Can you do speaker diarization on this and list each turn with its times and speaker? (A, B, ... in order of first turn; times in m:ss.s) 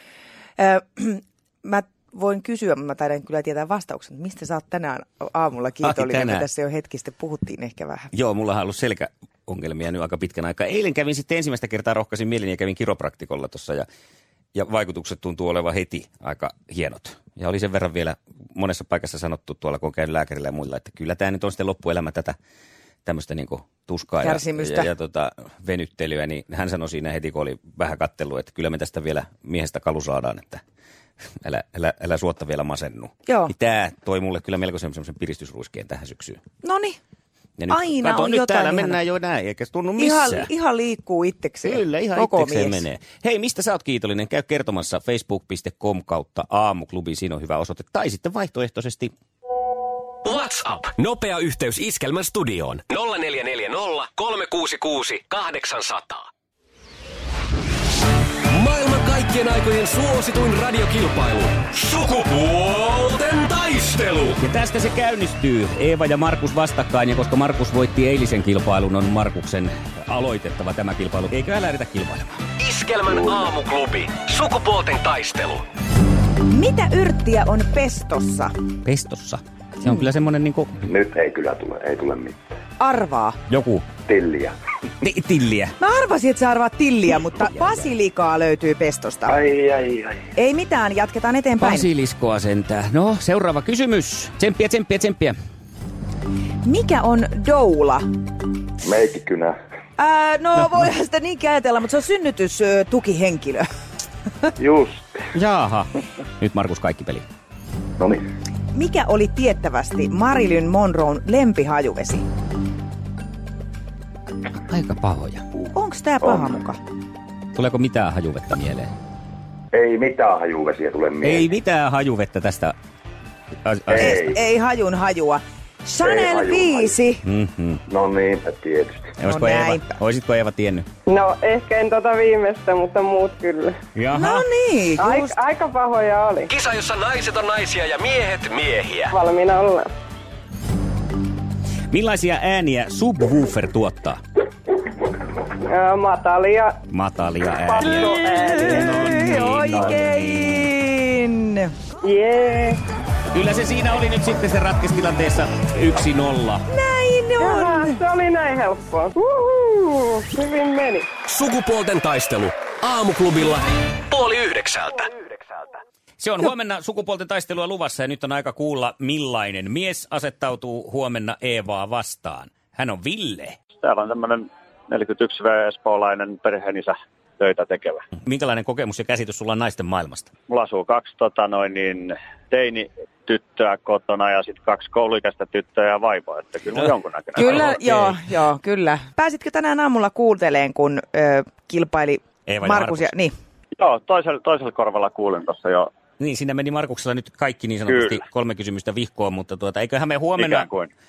0:00.6-0:08.1 A
0:05.8-0:06.5 B
0:08.1-0:13.9 B
0:14.6-0:22.3 B
0:23.0-0:30.6 B
0:24.2-0:24.9 A
0:31.4-0:36.4 B
0:33.3-0:33.5 A
0:36.6-0:37.0 A
0:37.6-0:40.5 B
0:37.7-0:39.0 A
0:40.0-0:42.8 A
0:41.6-0:49.1 B
0:50.2-0:56.3 C
0:58.5-1:04.4 C
1:04.4-1:12.4 B
1:12.6-1:15.6 C
1:13.1-1:13.5 D
1:16.4-1:18.5 A
1:18.8-1:20.8 B
1:20.8-1:22.4 D
1:22.8-1:23.4 A
1:23.5-1:23.9 B
1:24.1-1:24.6 D
1:25.0-1:25.8 B
1:25.8-1:29.4 A
1:27.4-1:27.9 B
1:29.3-1:30.2 D
1:30.4-1:31.9 A
1:31.6-1:35.4 B
1:36.6-1:38.0 A
1:38.8-1:39.6 D
1:40.0-1:43.7 A
1:44.6-1:45.2 D
1:45.3-1:47.3 B
1:48.0-1:48.2 D
1:48.7-1:52.2 A
1:54.7-1:55.4 B
1:55.7-1:56.8 A
1:56.2-1:56.5 D
1:57.6-1:58.9 B
1:59.7-2:01.5 D
2:01.2-2:02.8 B
2:03.6-2:04.2 B
2:03.9-2:04.4 D
2:04.0-2:07.2 A
2:06.0-2:06.9 D
2:07.2-2:07.8 B
2:07.9-2:09.1 D
2:09.2-2:10.9 B
2:09.2-2:10.0 A
2:11.1-2:13.8 E
2:14.0-2:14.5 B
2:14.1-2:15.4 A
2:15.0-2:16.5 E
2:16.5-2:19.2 C
2:19.1-2:19.9 E
2:21.9-2:24.2 B
2:25.6-2:26.8 E
2:26.9-2:30.6 B
2:27.7-2:28.8 E
2:27.9-2:31.9 A
2:32.0-2:32.8 E
2:33.3-2:36.7 B
2:36.7-2:38.0 A
2:37.4-2:41.1 E
2:41.3-2:45.2 C
2:46.2-2:53.6 B
2:53.8-2:58.0 F
2:58.2-3:00.3 B
3:00.5-3:07.7 F
3:07.4-3:13.3 A
3:07.4-3:08.1 B
3:12.5-3:13.1 B
3:13.8-3:15.9 F
3:16.2-3:20.7 B
3:17.9-3:18.2 F
3:20.4-3:20.9 F